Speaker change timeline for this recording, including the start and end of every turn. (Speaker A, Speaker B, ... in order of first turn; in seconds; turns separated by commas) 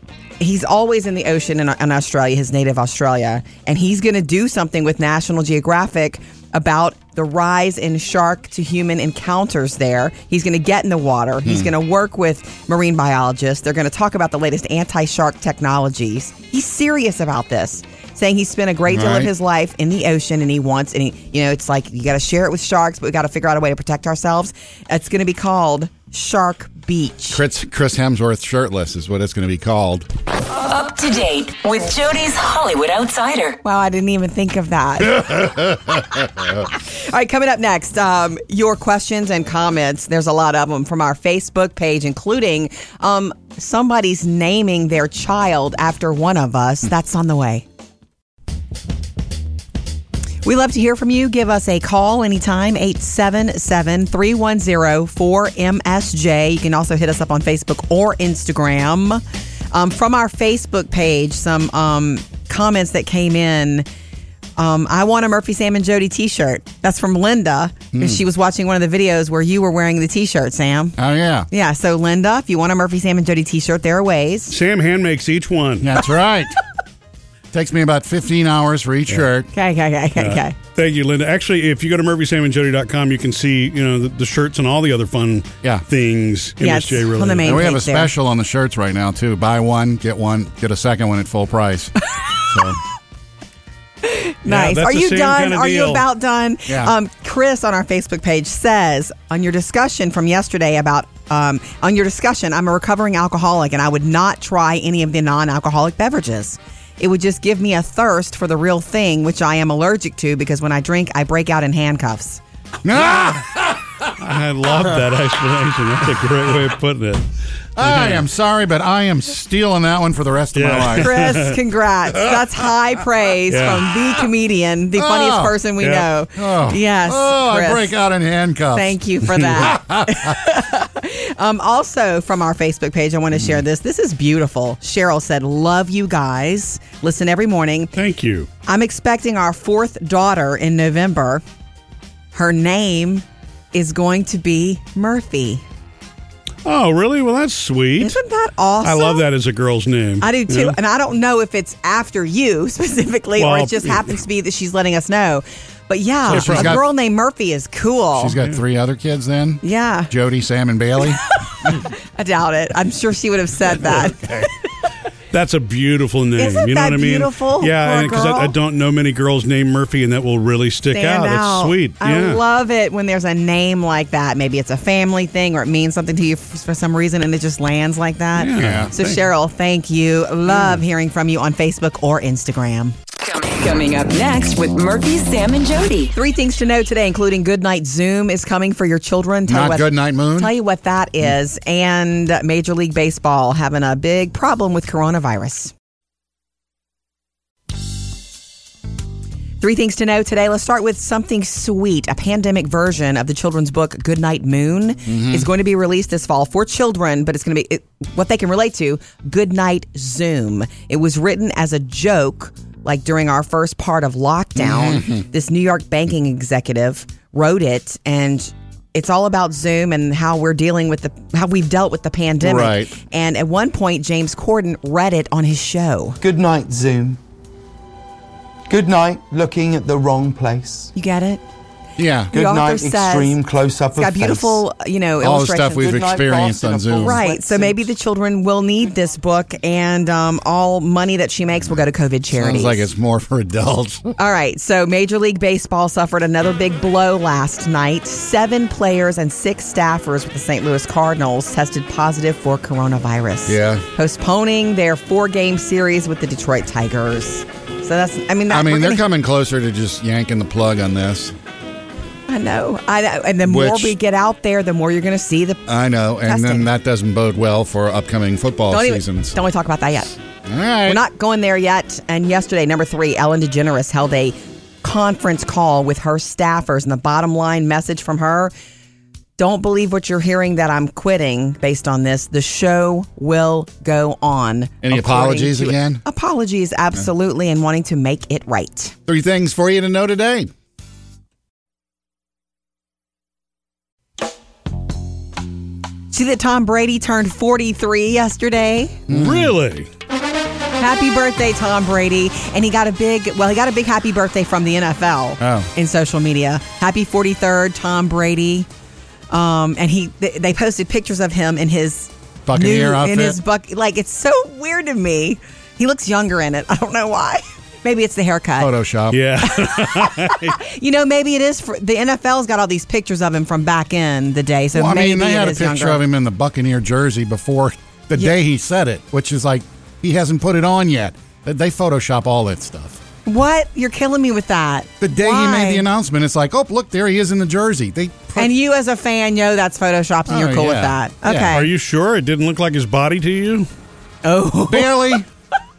Speaker A: 0.4-27.4, Speaker B: 11.4-11.7, Speaker B: 18.9-19.3, Speaker B: 27.3-30.1, Speaker C: 30.5-33.6, Speaker A: 33.6-35.4, Speaker B: 35.2-36.6, Speaker A: 36.7-47.6, Speaker A: 50.4-63.9, Speaker A: 64.6-71.0, Speaker B: 67.9-68.2, Speaker B: 71.0-71.5, Speaker A: 71.5-74.5, Speaker D: 74.5-75.9, Speaker B: 75.8-76.5, Speaker B: 77.5-79.5, Speaker A: 79.5-80.5, Speaker D: 80.2-87.7, Speaker A: 86.6-88.1, Speaker B: 87.4-92.8, Speaker A: 94.0-112.4, Speaker D: 94.5-96.0, Speaker B: 96.7-96.9, Speaker B: 112.8-114.1, Speaker D: 114.2-117.3, Speaker B: 117.8-121.4, Speaker D: 117.8-118.2, Speaker D: 120.5-121.6, Speaker A: 121.0-127.9, Speaker D: 123.5-123.9, Speaker B: 124.9-125.6, Speaker D: 125.8-126.1, Speaker B: 126.3-130.4, Speaker A: 128.7-137.9, Speaker D: 137.9-138.5, Speaker A: 138.7-141.4, Speaker A: 142.3-145.6, Speaker D: 146.6-148.2, Speaker A: 148.0-149.3, Speaker D: 148.8-150.8, Speaker A: 150.2-158.3, Speaker D: 153.4-154.2, Speaker B: 156.3-156.8, Speaker D: 156.3-156.8, Speaker B: 158.2-161.2, Speaker A: 159.6-160.1, Speaker A: 161.4-164.5, Speaker B: 164.0-164.5, Speaker D: 165.3-172.4, Speaker A: 166.4-168.5, Speaker A: 170.9-182.9, Speaker D: 178.3-179.2, Speaker B: 178.6-178.9, Speaker C: 183.2-186.1, Speaker A: 186.1-195.7, Speaker B: 189.5-190.5, Speaker A: 199.6-226.2, Speaker B: 205.1-205.5, Speaker B: 214.6-215.2, Speaker B: 222.4-222.9, Speaker E: 226.2-227.2, Speaker E: 228.7-230.9, Speaker A: 230.9-231.4, Speaker B: 232.0-232.3, Speaker E: 232.3-234.6, Speaker A: 232.3-233.4, Speaker A: 233.9-235.9, Speaker B: 235.2-237.2, Speaker E: 235.8-237.8, Speaker A: 236.9-242.9, Speaker B: 242.3-244.2, Speaker A: 244.2-259.0, Speaker B: 253.4-253.8, Speaker B: 258.5-261.3, Speaker A: 262.3-265.7, Speaker B: 263.4-263.9, Speaker B: 265.7-269.4, Speaker A: 266.2-266.6, Speaker A: 268.7-270.2, Speaker B: 270.4-271.0, Speaker A: 270.8-278.5, Speaker A: 279.4-288.9, Speaker B: 284.8-286.0, Speaker B: 289.1-290.5, Speaker A: 296.1-299.0, Speaker B: 299.1-299.5, Speaker D: 299.1-299.9, Speaker A: 300.8-308.7, Speaker B: 305.4-305.7, Speaker A: 309.3-318.7, Speaker B: 312.4-313.4, Speaker B: 318.6-319.2, Speaker D: 319.1-320.6, Speaker A: 319.5-326.0, Speaker B: 324.7-333.0, Speaker A: 333.2-335.9, Speaker B: 335.0-338.5, Speaker A: 338.4-341.7, Speaker B: 340.3-341.6, Speaker D: 341.5-343.7, Speaker A: 344.2-345.2, Speaker B: 344.7-345.2